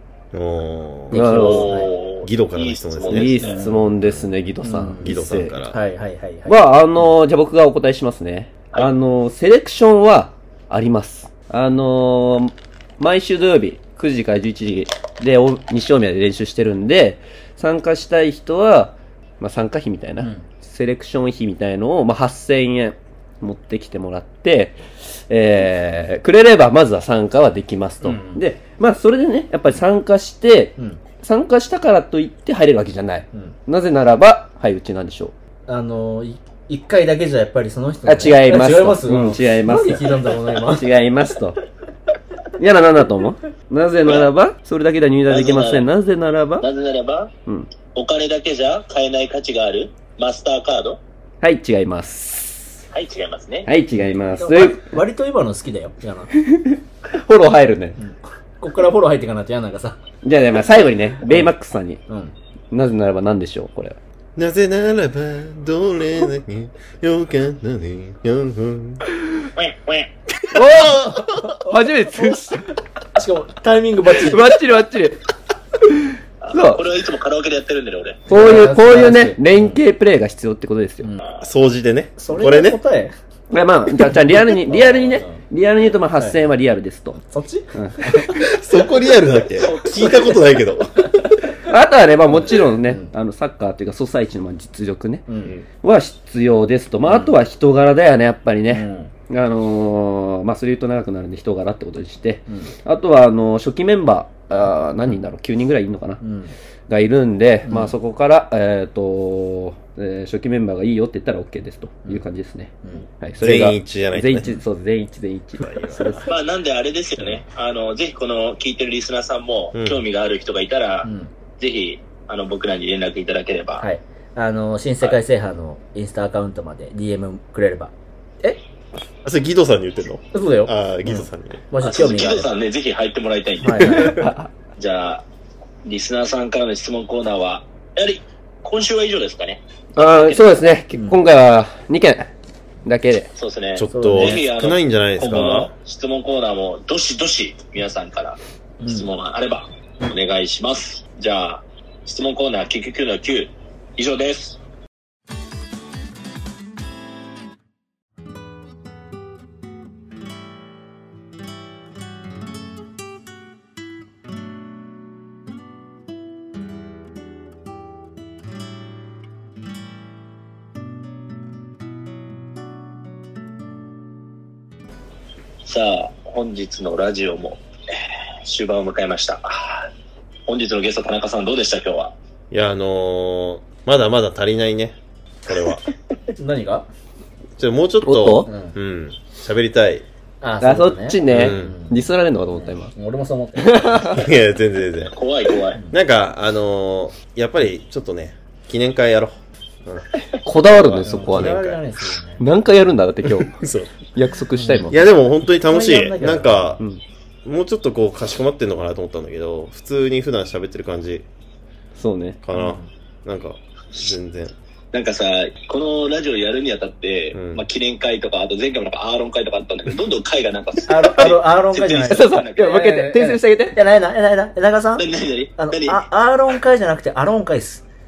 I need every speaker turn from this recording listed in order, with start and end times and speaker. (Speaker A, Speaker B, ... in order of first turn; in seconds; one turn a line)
Speaker A: 0.3-4.3
Speaker B: 1.1-1.9
Speaker C: 1.1-1.7
Speaker D: 1.3-3.6
Speaker C: 3.1-5.6
Speaker B: 3.4-3.9
Speaker B: 4.6-5.2
Speaker A: 5.0-5.8
Speaker B: 5.7-7.1
Speaker C: 6.5-35.3
Speaker B: 20.2-20.5
Speaker B: 28.0-28.4
Speaker B: 35.7-40.9
Speaker C: 38.0-41.6
Speaker C: 42.6-46.7
Speaker D: 44.0-44.3
Speaker D: 45.3-45.9
Speaker D: 46.6-47.3
Speaker D: 47.9-51.0
Speaker C: 51.4-52.8
Speaker D: 52.9-53.7
Speaker C: 53.6-54.9
Speaker B: 54.4-56.3
Speaker C: 56.5-58.0
Speaker B: 58.0-60.0
Speaker C: 60.2-62.0
Speaker B: 62.1-62.3
Speaker C: 62.7-64.0
Speaker A: 64.3-69.0
Speaker D: 69.5-70.1
Speaker C: 70.5-72.7
Speaker A: 70.6-71.2
Speaker B: 71.0-71.5
Speaker B: 72.1-72.4
Speaker B: 73.1-74.5
Speaker C: 74.2-75.2
Speaker C: 75.8-76.8
Speaker D: 76.4-78.2
Speaker C: 78.3-81.1
Speaker B: 78.3-79.8
Speaker A: 81.4-82.8
Speaker B: 82.2-83.1
Speaker C: 83.5-87.2
Speaker B: 84.3-85.4
Speaker B: 87.2-88.4
Speaker C: 87.7-88.3
Speaker A: 88.3-91.3
Speaker D: 89.5-90.5
Speaker C: 91.6-106.2
Speaker B: 92.3-93.1
Speaker B: 95.3-95.6
Speaker B: 97.0-97.3
Speaker B: 98.7-99.1
Speaker B: 106.2-106.5
Speaker C: 106.9-116.3
Speaker B: 107.6-107.9
Speaker A: 113.4-114.6
Speaker B: 115.6-116.2
Speaker A: 115.6-116.2
Speaker D: 116.3-123.8
Speaker A: 119.7-120.0
Speaker B: 121.0-121.3
Speaker B: 123.8-128.6
Speaker A: 129.2-131.6
Speaker B: 130.3-132.5
Speaker D: 131.8-134.1
Speaker B: 133.6-134.3
Speaker C: 133.8-134.5
Speaker D: 134.8-135.2
Speaker D: 135.8-140.7
Speaker C: 140.0-142.3
Speaker B: 140.9-141.2
Speaker C: 142.8-143.3
Speaker D: 143.3-154.6
Speaker A: 143.7-145.7
Speaker B: 143.9-144.4
Speaker B: 148.8-149.1
Speaker D: 175.6-177.6
Speaker D: 178.4-179.9
Speaker D: 180.5-182.1
Speaker A: 182.5-185.8
Speaker B: 186.4-186.9
Speaker A: 187.6-190.1
Speaker C: 188.0-188.5
Speaker B: 188.4-188.8
Speaker B: 190.4-194.1
Speaker C: 190.6-192.9
Speaker A: 191.2-191.8
Speaker C: 193.6-194.2
Speaker A: 194.1-195.2
Speaker D: 195.1-195.8
Speaker A: 195.9-201.7
Speaker C: 200.4-201.8
Speaker B: 201.0-202.4
Speaker C: 202.4-205.0
Speaker A: 203.3-203.9
Speaker B: 204.5-205.0
Speaker A: 204.9-206.8
Speaker B: 205.5-206.8
Speaker A: 207.4-211.2
Speaker C: 211.9-212.4
Speaker A: 212.4-214.5
Speaker B: 212.5-212.9
Speaker D: 214.9-222.8
Speaker A: 217.3-217.6
Speaker B: 220.9-227.8
Speaker C: 222.1-223.8
Speaker D: 225.0-226.0